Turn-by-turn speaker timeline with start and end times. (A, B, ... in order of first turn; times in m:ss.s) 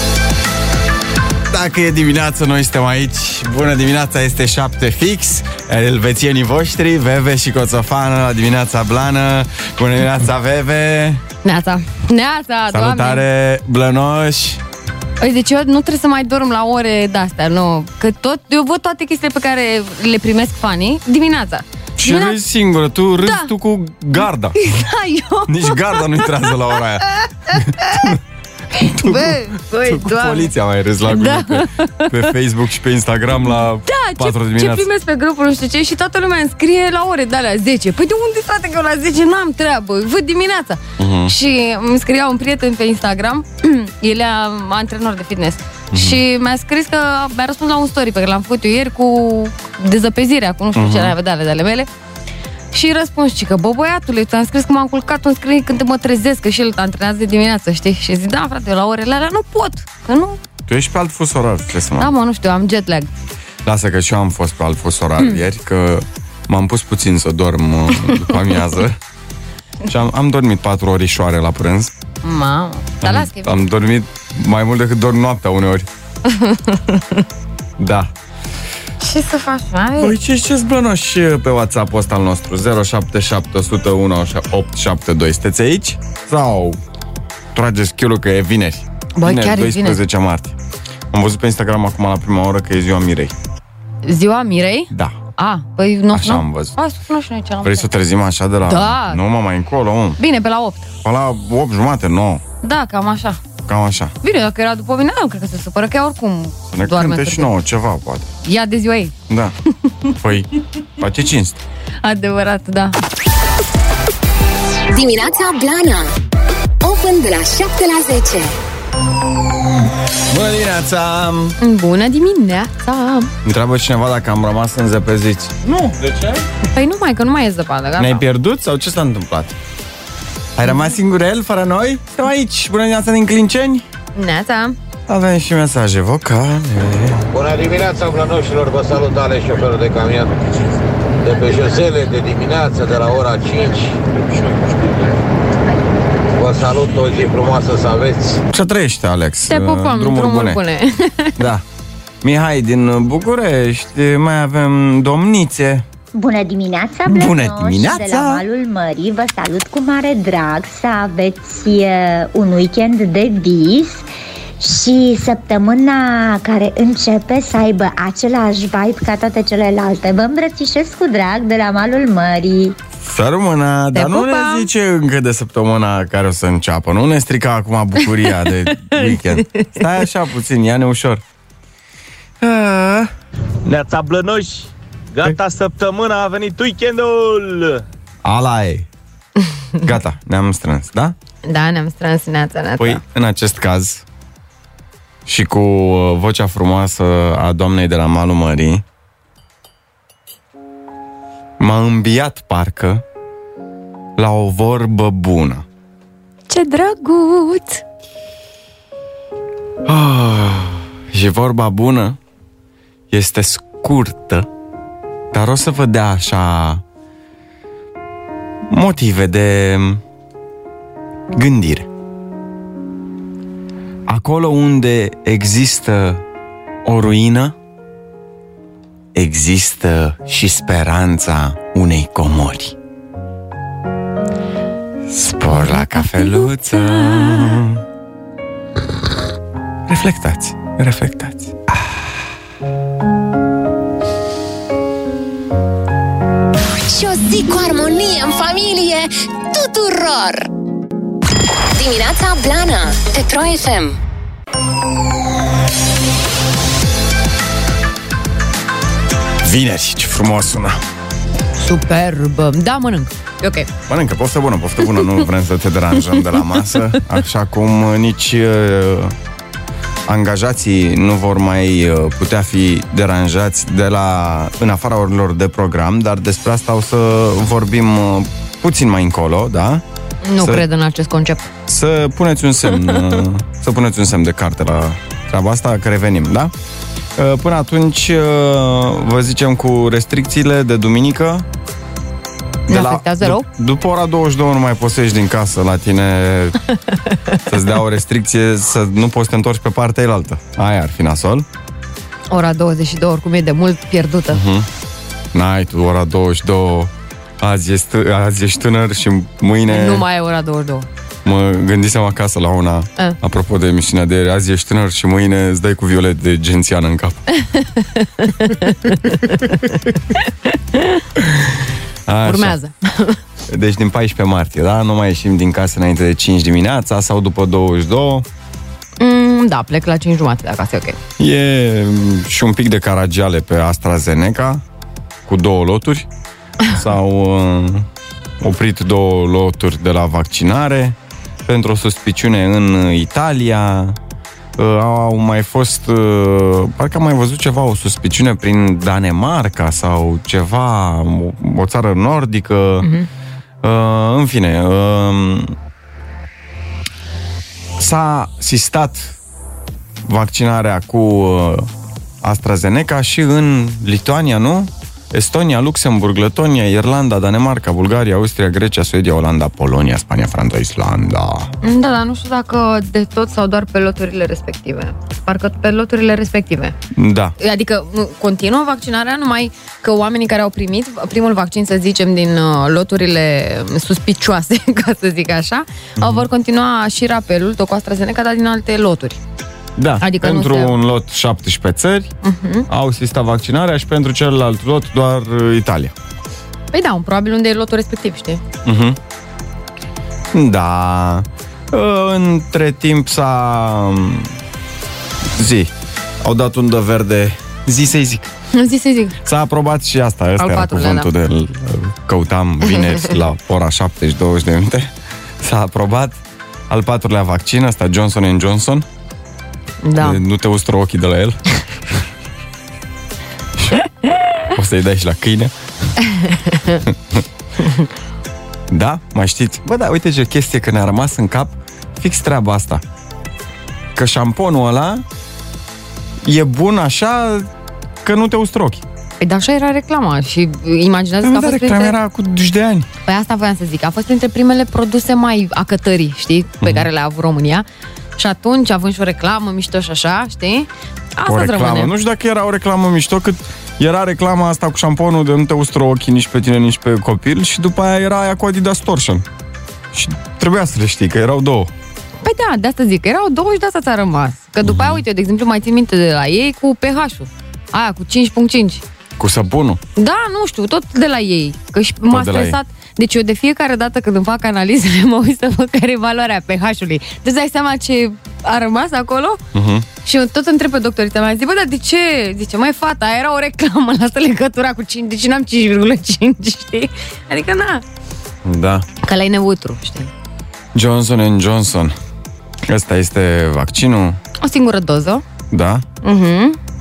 0:01.5-0:11.2 A
0:11.4-0:13.2 B
0:12.7-0:14.6 A
0:15.2-0:22.4 B
0:22.0-0:24.6 A
0:23.2-0:23.5 B
0:24.2-0:28.1 B
0:25.5-0:28.2 A
0:28.8-0:30.6 B
0:28.8-0:34.9 A
0:31.1-0:32.3 B
0:33.8-0:51.9 B
0:41.0-0:41.3 A
0:45.9-0:46.2 A
0:50.8-0:51.1 A
0:52.7-1:00.4 B
1:00.7-1:02.1 A
1:02.0-1:03.1 B
1:03.6-1:09.0 A
1:08.0-1:08.3 B
1:09.9-1:11.9 A
1:12.2-1:13.6 B
1:13.0-1:15.9 A
1:16.3-1:17.2 B
1:17.8-1:18.1 A
1:19.0-1:20.2 B
1:20.0-1:26.8 A
1:27.6-1:30.6 A
1:29.2-1:30.0 B
1:31.1-1:33.3 A
1:34.0-1:37.9 B
1:36.1-1:36.7 A
1:37.6-1:40.2 A
1:38.6-1:39.2 B
1:40.2-1:40.9 B
1:41.0-1:42.4 A
1:42.6-1:43.4 B
1:43.7-1:44.1 A
1:44.2-1:47.5 B
1:46.7-1:48.3 A
1:48.4-1:49.1 B
1:50.2-1:50.5 A
1:51.0-1:51.6 A
1:52.0-1:53.0 B
1:54.9-1:56.1 C
1:56.8-1:58.6 C
2:00.3-2:01.6 A
2:01.6-2:03.3 B
2:03.4-2:06.4 A
2:06.6-2:08.3 B
2:08.0-2:09.5 A
2:10.6-2:13.8 A
2:10.7-2:10.9 B
2:14.2-2:14.8 B
2:15.1-2:17.3 A
2:17.3-2:20.4 D
2:21.2-2:24.0 D
2:26.4-2:28.4 D
2:28.5-2:30.6 A
2:29.5-2:31.4 B
2:32.2-2:35.8 A
2:36.2-2:44.1 E
2:37.1-2:38.4 A
2:44.6-2:52.8 E
2:53.0-3:01.2 A
2:53.9-2:54.7 B
2:58.1-2:59.9 B
3:02.4-3:03.1 A
3:03.7-3:07.8 F
3:08.2-3:08.9 A
3:09.9-3:11.1 A
3:11.5-3:13.0 B
3:12.8-3:14.0 A
3:15.3-3:18.8 A
3:21.6-3:23.0 A
3:24.2-3:25.6 A
3:26.5-3:27.8 B
3:29.9-3:32.2 A
3:33.1-3:34.5 A
3:35.3-3:36.8 A
3:38.7-3:40.0 A
3:41.3-3:41.9 A
3:44.1-3:46.2 A
3:46.9-3:47.5 A
3:49.2-3:52.7 A
3:55.1-3:57.8 A
3:55.5-3:57.4 B
3:59.9-4:01.5 A
4:06.9-4:10.5 C
4:11.8-4:14.0 C
4:19.4-4:20.8 A
4:21.6-4:23.7 B
4:23.9-4:29.1 A
4:24.9-4:25.2 B
4:30.1-4:39.8 A
4:40.2-4:41.5 B
4:41.7-4:46.5 A
4:47.2-4:51.4 A
4:52.7-4:56.6 A
4:52.7-4:53.5 B
4:57.5-5:01.4 A
5:02.3-5:04.4 B
5:04.3-5:04.7 A
5:05.3-5:10.0 A
5:09.7-5:10.9 B
5:11.2-5:17.2 A
5:17.4-5:21.0 B
5:22.1-5:22.6 A
5:22.2-5:23.2 B
5:23.5-5:28.2 A
5:29.0-5:31.0 B
5:31.2-5:34.6 A
5:35.3-5:36.1 A
5:36.8-5:37.8 A
5:38.4-5:41.0 A
5:41.5-5:44.0 A
5:44.6-5:52.9 A
5:52.8-5:53.1 B
5:53.6-5:55.5 A
5:57.8-5:59.2 A
6:00.0-6:01.7 A
6:02.2-6:11.5 A
6:11.6-6:16.8 B
6:17.0-6:17.4 A
6:17.4-6:29.2 B
6:26.0-6:26.3 A
6:29.8-6:32.1 A
6:30.0-6:30.8 B
6:32.2-6:32.7 B
6:32.7-6:35.9 A
6:36.7-6:38.4 B
6:38.6-6:39.0 A
6:40.3-6:44.3 A
6:45.3-6:45.7 A
6:46.2-6:48.3 A
6:48.5-6:49.2 B
6:49.2-6:54.9 A
6:50.4-6:51.1 B
6:52.7-6:53.1 B
6:55.4-6:56.2 A
6:56.7-6:58.8 A
6:59.8-7:00.2 B
7:00.0-7:01.4 A
7:04.6-7:05.5 A
7:06.1-7:06.8 B
7:08.7-7:12.8 A
7:14.0-7:15.0 A
7:16.2-7:17.5 A
7:18.0-7:18.8 A
7:19.2-7:22.0 B
7:21.2-7:22.9 A
7:23.1-7:27.6 B
7:26.6-7:26.9 A
7:28.2-7:31.9 B
7:31.3-7:39.2 A
7:39.9-7:41.7 A
7:42.2-7:48.8 B
7:44.6-7:45.0 A
7:49.2-7:49.8 A
7:50.0-7:59.4 B
7:52.1-7:52.6 A
7:59.6-7:59.8 A
8:00.0-8:07.8 B
8:08.4-8:08.8 A
8:09.0-8:10.1 B
8:10.8-8:11.9 A
8:12.7-8:14.2 A
8:14.4-8:15.2 B
8:15.5-8:15.8 A
8:16.0-8:16.6 B